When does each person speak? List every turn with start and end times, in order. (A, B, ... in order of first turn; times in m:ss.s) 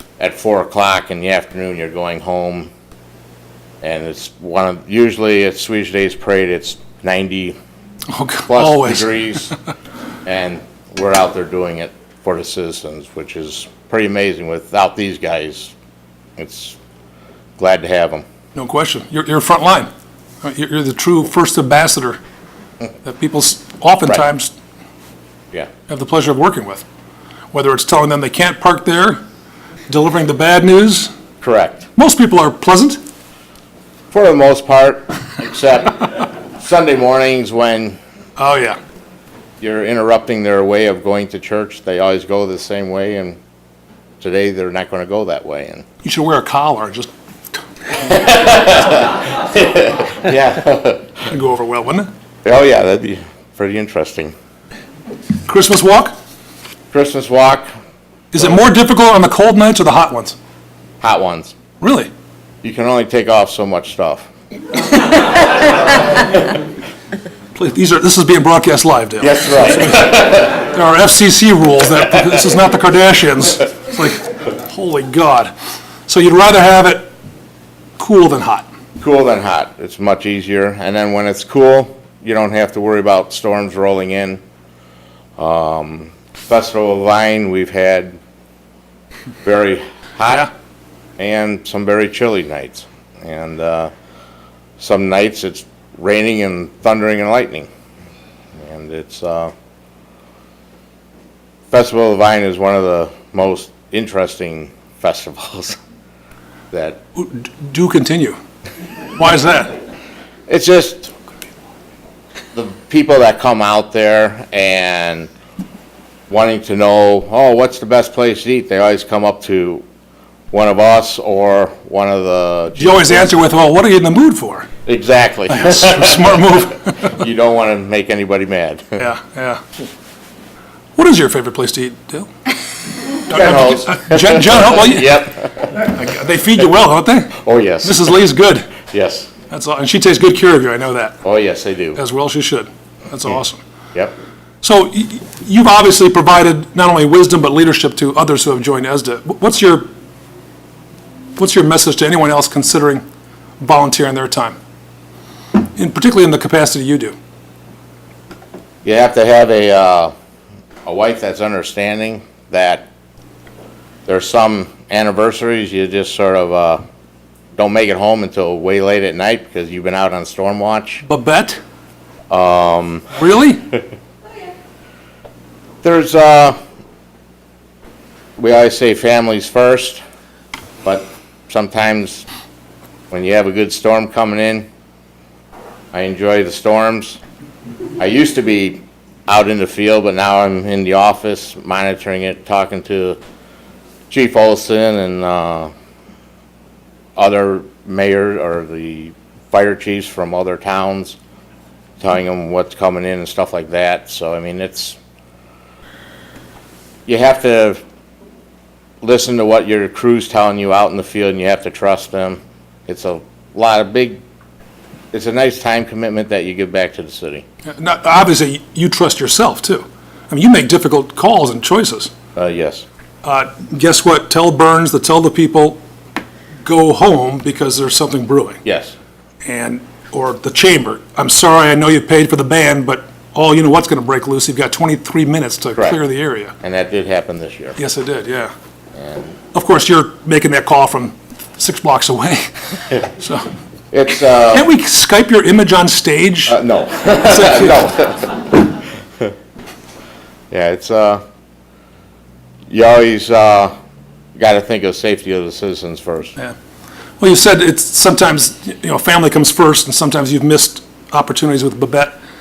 0:00.2-0:02.7 A
0:03.8-0:07.6 A
0:08.1-0:09.1 B
0:08.5-0:09.5 A
0:10.2-0:15.7 A
0:16.4-0:16.8 A
0:17.6-0:18.2 A
0:18.6-0:19.9 B
0:20.4-0:22.2 B
0:23.0-0:24.5 B
0:25.9-0:26.8 B
0:27.5-0:29.2 B
0:29.9-0:31.1 B
0:31.4-0:31.9 A
0:32.0-0:33.0 B
0:34.1-0:38.0 A
0:38.4-0:38.8 B
0:39.6-0:43.4 A
0:44.2-0:45.8 A
0:46.0-0:47.1 B
0:48.0-0:51.3 A
0:51.3-0:52.1 B
0:52.4-0:54.3 A
0:55.5-0:56.1 B
0:56.9-0:57.7 A
0:58.3-1:00.4 B
1:01.0-1:01.5 A
1:01.8-1:02.1 B
1:02.6-1:04.3 A
1:07.6-1:15.5 B
1:09.2-1:10.6 A
1:16.1-1:17.1 B
1:18.0-1:18.7 B
1:19.0-1:24.4 A
1:25.4-1:28.2 A
1:29.4-1:30.5 A
1:31.2-1:33.9 A
1:34.8-1:37.7 A
1:38.6-1:39.5 A
1:41.7-1:45.8 A
1:46.7-1:47.0 A
1:47.2-1:48.4 B
1:49.1-1:49.7 B
1:50.5-1:51.1 A
1:52.5-1:55.3 A
1:56.3-1:59.8 A
2:00.5-2:03.3 A
2:02.8-2:04.7 B
2:04.8-2:06.3 A
2:05.5-2:07.1 B
2:07.0-2:09.0 A
2:09.0-2:09.6 B
2:11.0-2:12.3 B
2:13.3-2:18.7 B
2:13.3-2:15.9 A
2:17.4-2:18.2 A
2:18.9-2:19.3 A
2:19.5-2:21.2 B
2:21.2-2:22.0 A
2:22.0-2:23.6 B
2:24.6-2:29.9 B
2:31.4-2:33.0 B
2:33.6-2:34.6 B
2:35.8-2:37.2 B
2:38.8-2:40.1 A
2:40.8-2:42.9 A
2:44.1-2:46.8 A
2:47.6-2:51.0 A
2:51.1-2:51.6 B
2:52.3-2:53.1 A
2:53.1-2:53.7 B
2:55.8-2:56.6 A
2:58.4-3:00.0 A
3:00.8-3:02.2 A
3:03.1-3:04.7 A
3:05.9-3:07.2 A
3:08.0-3:13.2 A
3:14.1-3:15.7 A
3:17.2-3:21.2 A
3:22.0-3:25.0 A
3:27.1-3:27.8 A
3:29.0-3:34.2 A
3:35.1-3:37.4 A
3:37.8-3:42.1 B
3:42.3-3:42.8 A
3:43.2-3:45.8 B
3:46.6-3:48.6 B
3:48.6-3:49.0 A
3:49.4-3:56.5 B
3:56.6-3:57.8 A
3:57.8-3:58.5 B
3:58.9-3:59.4 A
3:59.5-4:03.4 B
4:03.9-4:04.7 A
4:04.5-4:06.6 B
4:06.5-4:08.5 A
4:07.3-4:07.8 B
4:10.5-4:11.2 A
4:12.7-4:13.7 A
4:14.4-4:16.4 A
4:17.2-4:22.2 B